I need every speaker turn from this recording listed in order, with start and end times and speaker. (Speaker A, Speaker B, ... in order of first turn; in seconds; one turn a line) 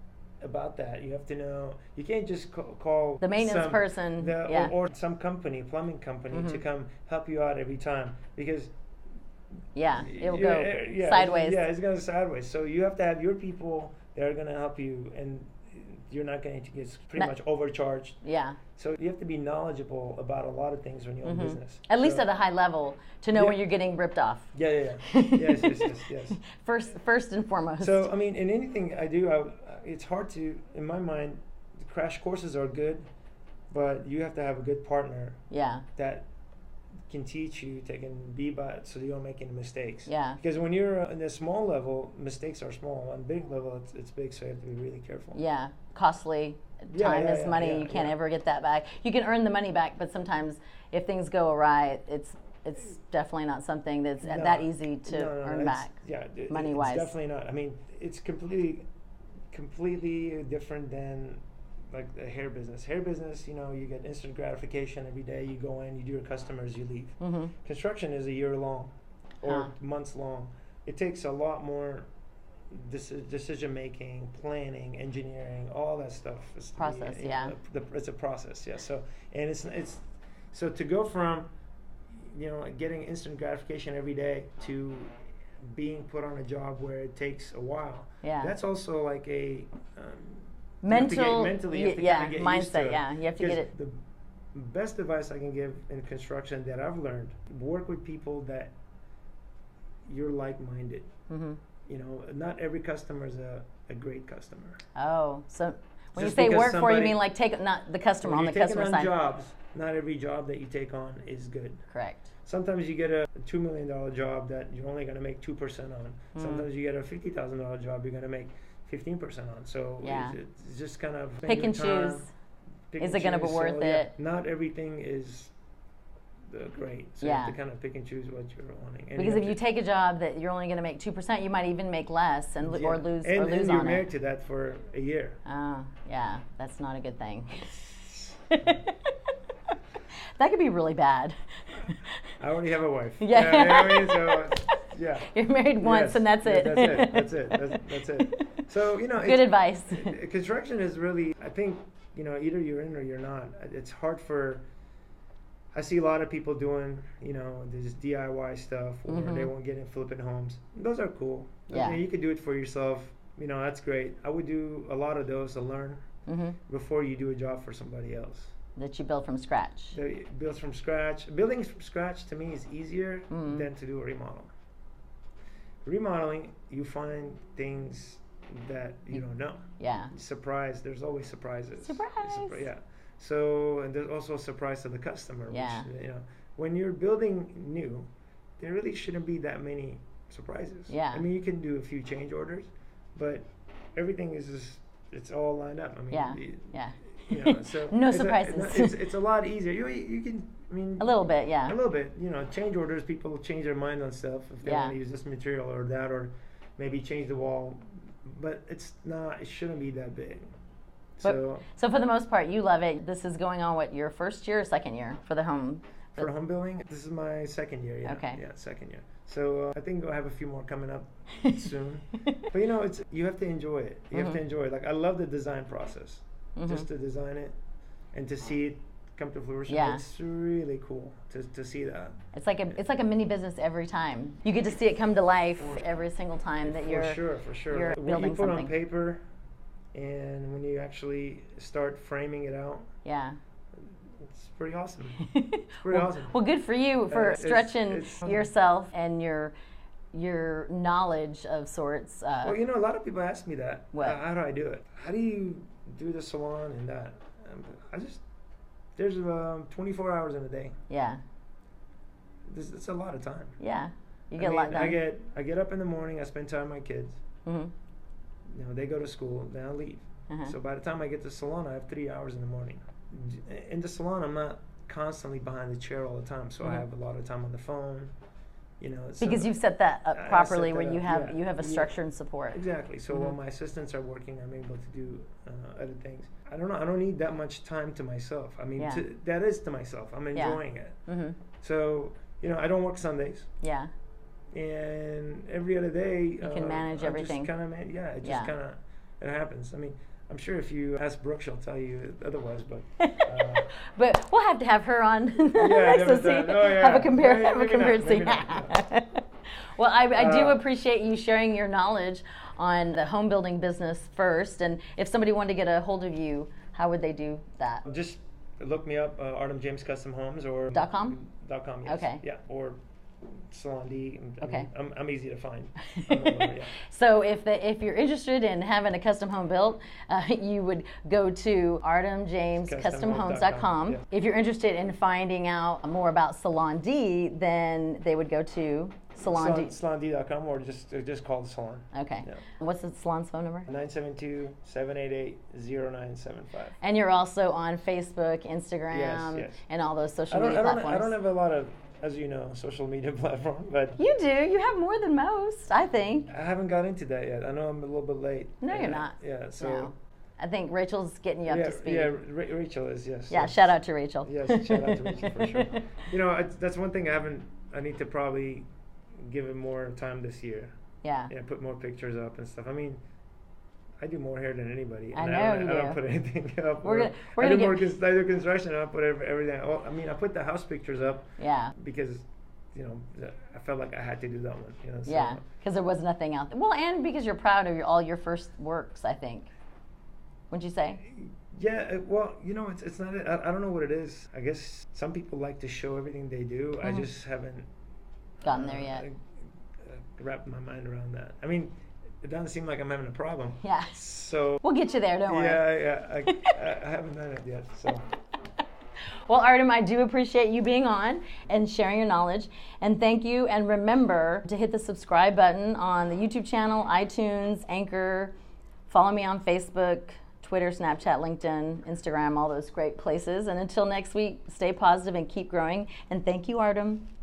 Speaker A: 0.4-8.7
Speaker B: 3.2-4.7
Speaker B: 6.3-6.6
Speaker B: 9.8-11.6
Speaker A: 10.0-18.2
Speaker B: 18.2-18.6
Speaker A: 18.8-22.3
Speaker B: 21.2-24.5
Speaker A: 23.3-23.6
Speaker A: 24.5-26.4
Speaker B: 25.1-28.1
Speaker A: 27.8-33.1
Speaker A: 33.7-35.4
Speaker B: 35.5-35.9
Speaker A: 36.0-36.3
Speaker A: 37.1-45.4
Speaker B: 40.1-40.4
Speaker B: 45.3-55.9
Speaker A: 46.9-48.1
Speaker A: 54.2-58.9
Speaker B: 56.5-57.1
Speaker A: 59.5-72.1
Speaker B: 67.2-67.5
Speaker B: 69.4-69.7
Speaker A: 72.7-81.5
Speaker B: 76.8-77.5
Speaker A: 82.1-94.0
Speaker B: 88.2-88.5
Speaker B: 90.8-93.7
Speaker A: 94.5-98.7
Speaker A: 100.1-101.1
Speaker B: 101.3-101.6
Speaker A: 101.9-104.8
Speaker B: 105.0-109.1
Speaker A: 106.2-107.2
Speaker A: 108.2-111.8
Speaker B: 111.9-112.2
Speaker A: 112.5-122.3
Speaker B: 116.3-116.7
Speaker B: 120.0-120.4
Speaker B: 121.5-122.3
Speaker A: 122.9-125.5
Speaker B: 123.0-124.1
Speaker A: 126.5-129.6
Speaker B: 127.2-127.6
Speaker B: 129.2-134.0
Speaker A: 132.6-135.4
Speaker B: 135.4-139.0
Speaker B: 140.4-142.1
Speaker A: 142.4-154.7
Speaker B: 143.2-148.6
Speaker B: 149.2-150.2
Speaker A: 155.7-166.0
Speaker B: 159.1-159.5
Speaker B: 161.7-162.0
Speaker B: 166.3-166.6
Speaker A: 166.7-168.5
Speaker B: 168.8-170.0
Speaker A: 169.9-174.5
Speaker B: 173.3-173.7
Speaker A: 175.8-188.1
Speaker B: 179.8-180.1
Speaker B: 181.8-182.7
Speaker B: 185.5-185.9
Speaker A: 188.6-210.5
Speaker B: 190.9-191.2
Speaker B: 196.1-199.0
Speaker B: 201.0-201.8
Speaker B: 204.6-205.0
Speaker A: 211.2-211.7
Speaker B: 211.2-216.3
Speaker A: 216.2-227.6
Speaker B: 218.1-218.4
Speaker B: 224.1-224.4
Speaker B: 226.6-226.9
Speaker A: 228.1-232.2
Speaker B: 229.7-230.0
Speaker B: 232.3-238.7
Speaker A: 236.7-239.2
Speaker A: 239.9-242.9
Speaker B: 243.1-243.4
Speaker A: 244.2-245.2
Speaker B: 245.2-249.6
Speaker A: 245.8-246.3
Speaker A: 247.1-248.5
Speaker B: 250.1-252.6
Speaker A: 252.4-258.2
Speaker B: 253.9-254.2
Speaker A: 259.0-260.8
Speaker B: 260.9-261.2
Speaker A: 262.5-263.6
Speaker B: 263.6-265.0
Speaker A: 264.4-267.2
Speaker B: 267.4-267.7
Speaker A: 268.5-278.1
Speaker B: 270.3-270.6
Speaker A: 278.8-279.5
Speaker B: 279.2-282.6
Speaker A: 280.1-281.9
Speaker A: 282.5-291.0
Speaker B: 283.1-283.4
Speaker B: 288.8-289.1
Speaker B: 290.3-291.4
Speaker A: 291.6-293.5
Speaker B: 293.6-293.9
Speaker A: 294.5-303.7
Speaker B: 296.4-297.5
Speaker B: 298.2-298.5
Speaker B: 303.1-317.9
Speaker A: 305.6-308.8
Speaker A: 310.2-310.6
Speaker A: 317.9-326.8
Speaker B: 320.7-321.2
Speaker B: 321.9-322.2
Speaker B: 324.4-324.7
Speaker B: 325.9-339.8
Speaker A: 332.6-334.0
Speaker A: 339.2-342.4
Speaker B: 341.9-343.7
Speaker A: 343.7-346.8
Speaker B: 346.8-351.2
Speaker A: 348.9-349.6
Speaker A: 350.3-354.0
Speaker B: 354.0-356.3
Speaker A: 356.3-359.9
Speaker B: 358.6-362.2
Speaker A: 361.5-368.7
Speaker B: 363.3-366.0
Speaker A: 369.2-370.7
Speaker B: 371.0-371.3
Speaker A: 371.3-373.0
Speaker A: 374.0-385.4
Speaker B: 375.1-376.0
Speaker B: 376.8-377.9
Speaker B: 381.4-381.7
Speaker B: 385.1-389.5
Speaker B: 390.5-391.0
Speaker A: 391.0-397.7
Speaker B: 398.4-399.1
Speaker A: 398.5-399.3
Speaker A: 399.8-404.6
Speaker B: 403.6-404.0
Speaker B: 404.6-405.8
Speaker A: 405.3-408.1
Speaker B: 406.3-406.5
Speaker B: 409.3-418.3
Speaker B: 418.9-427.1